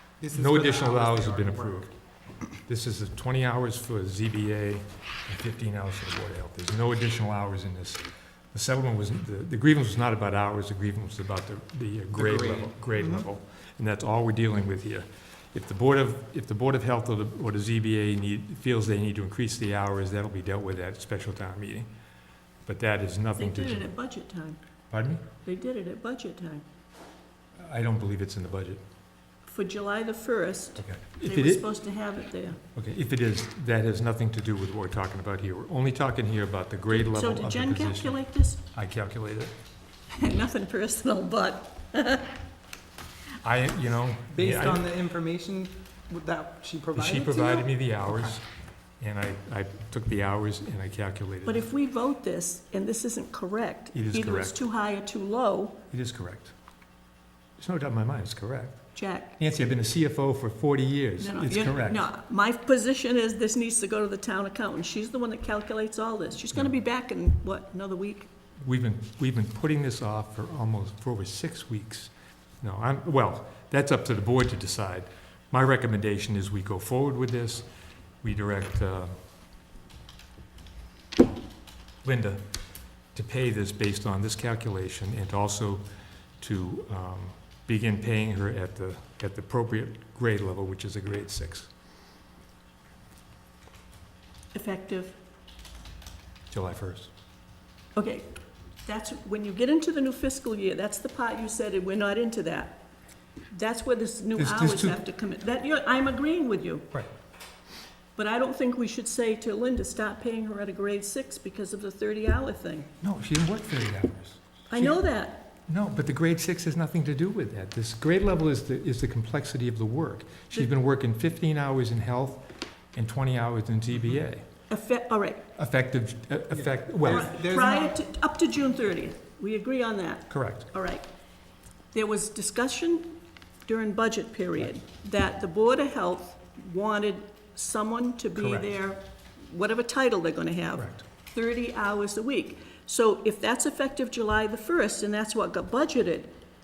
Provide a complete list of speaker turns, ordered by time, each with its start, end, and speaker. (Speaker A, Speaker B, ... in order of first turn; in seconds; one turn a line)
Speaker A: 0.2-1.9
Speaker B: 0.3-1.9
Speaker B: 2.6-21.9
Speaker A: 12.2-13.3
Speaker B: 22.6-23.9
Speaker C: 23.4-24.6
Speaker B: 24.9-25.2
Speaker C: 25.4-26.6
Speaker B: 27.6-28.8
Speaker C: 29.4-32.6
Speaker B: 30.8-31.7
Speaker B: 32.7-39.5
Speaker C: 36.9-38.6
Speaker C: 40.1-42.4
Speaker B: 43.4-45.0
Speaker A: 44.3-48.4
Speaker B: 47.0-48.5
Speaker B: 49.0-51.7
Speaker C: 51.5-55.8
Speaker B: 53.9-54.6
Speaker B: 55.9-56.5
Speaker B: 57.6-62.1
Speaker C: 59.0-59.4
Speaker C: 61.2-68.3
Speaker B: 68.6-79.2
Speaker B: 82.0-85.9
Speaker B: 86.4-91.7
Speaker C: 94.5-95.2
Speaker B: 96.5-97.1
Speaker C: 98.0-98.3
Speaker C: 98.8-102.8
Speaker C: 103.5-106.9
Speaker B: 104.4-105.0
Speaker C: 108.2-112.9
Speaker B: 113.0-124.5
Speaker C: 114.7-115.5
Speaker C: 124.7-125.5
Speaker B: 125.6-127.3
Speaker A: 126.5-128.0
Speaker C: 127.0-131.1
Speaker B: 130.3-130.7
Speaker C: 131.9-146.3
Speaker B: 138.3-138.7
Speaker B: 140.8-141.0